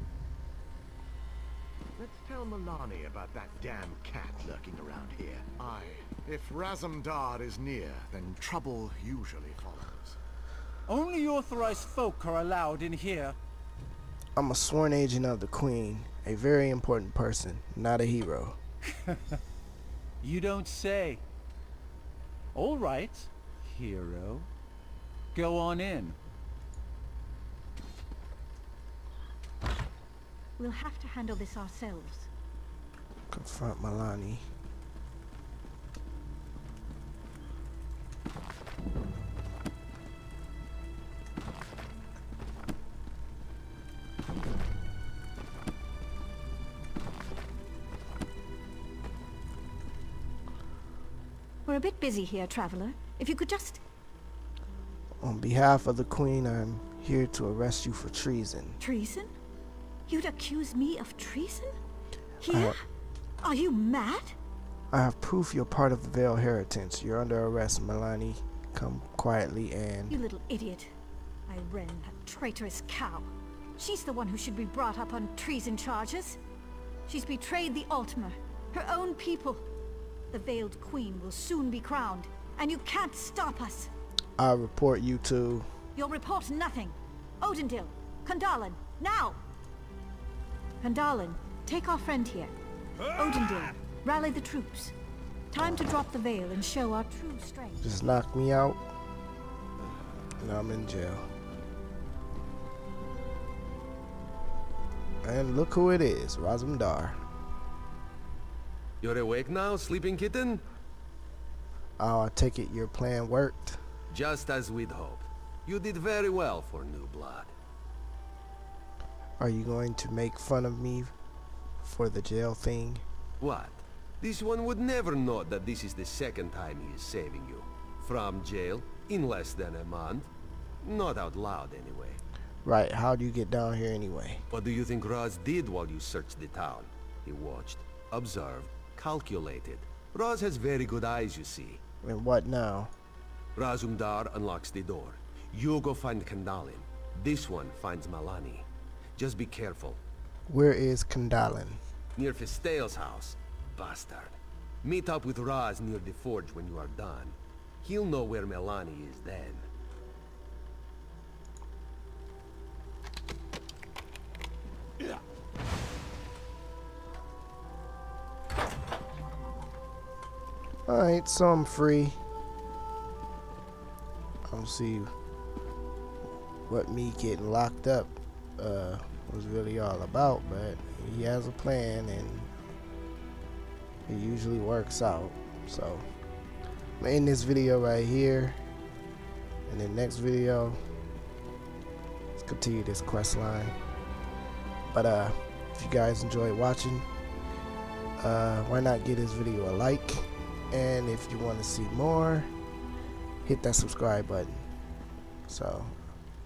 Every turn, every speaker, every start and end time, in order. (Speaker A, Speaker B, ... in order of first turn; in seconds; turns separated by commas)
Speaker A: 2.0-10.2, Speaker B: 10.9-13.4, Speaker C: 14.4-18.6, Speaker B: 19.1-19.4, Speaker B: 20.2-21.2, Speaker B: 22.6-24.5, Speaker B: 25.3-26.2, Speaker D: 30.6-32.3, Speaker C: 33.3-34.5, Speaker D: 51.7-53.8, Speaker C: 55.2-58.8, Speaker D: 58.8-59.3, Speaker D: 60.1-61.7, Speaker D: 62.4-62.8, Speaker C: 62.5-62.8, Speaker D: 63.4-64.4, Speaker C: 64.9-70.2, Speaker D: 70.1-70.9, Speaker D: 71.5-76.4, Speaker D: 77.1-79.6, Speaker D: 80.3-83.9, Speaker C: 84.4-85.7, Speaker D: 86.0-89.4, Speaker D: 90.8-92.5, Speaker D: 93.1-94.9, Speaker D: 95.5-97.9, Speaker C: 97.8-98.8, Speaker C: 100.4-101.3, Speaker C: 105.2-107.2, Speaker E: 109.0-110.6, Speaker C: 112.0-113.8, Speaker E: 114.1-117.5, Speaker C: 119.4-121.1, Speaker C: 121.8-123.0, Speaker E: 123.4-130.3, Speaker E: 130.8-132.2, Speaker C: 132.6-134.4, Speaker E: 134.5-141.8, Speaker C: 142.0-142.9, Speaker E: 143.6-148.7, Speaker E: 149.2-150.0, Speaker C: 150.5-151.8, Speaker E: 152.2-159.7, Speaker C: 170.9-172.2, Speaker C: 174.5-175.1, Speaker C: 176.7-182.5, Speaker C: 184.1-186.1, Speaker C: 187.0-188.6, Speaker C: 189.7-190.8, Speaker C: 192.4-193.8, Speaker C: 194.9-197.1, Speaker C: 198.2-202.5, Speaker C: 203.4-204.7, Speaker C: 205.5-206.0